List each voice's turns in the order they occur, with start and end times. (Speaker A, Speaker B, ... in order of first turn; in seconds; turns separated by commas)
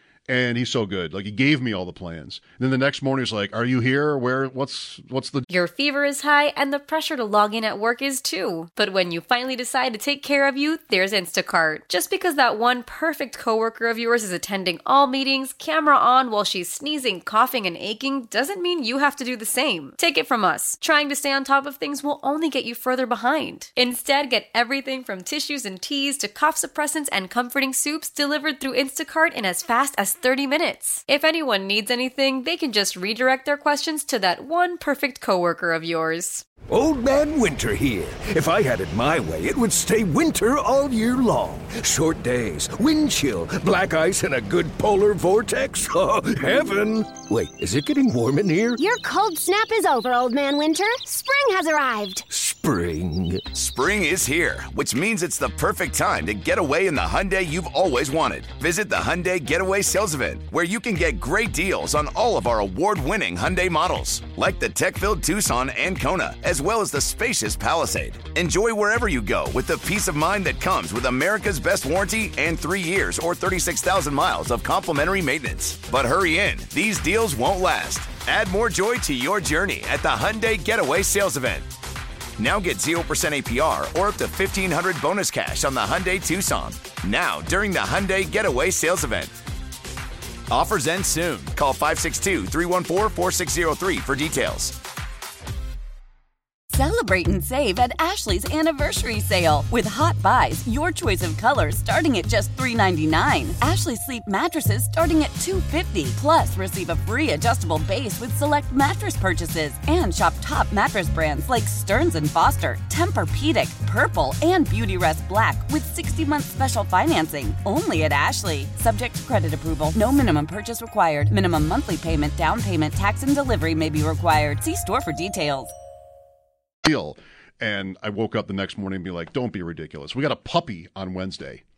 Speaker A: 0.3-5.5, Speaker B: 5.5-36.4, Speaker C: 36.7-48.8, Speaker D: 48.8-52.2, Speaker C: 52.3-53.8, Speaker E: 53.8-81.7, Speaker E: 82.4-89.3, Speaker E: 90.5-94.7, Speaker F: 96.7-125.7, Speaker A: 126.8-131.6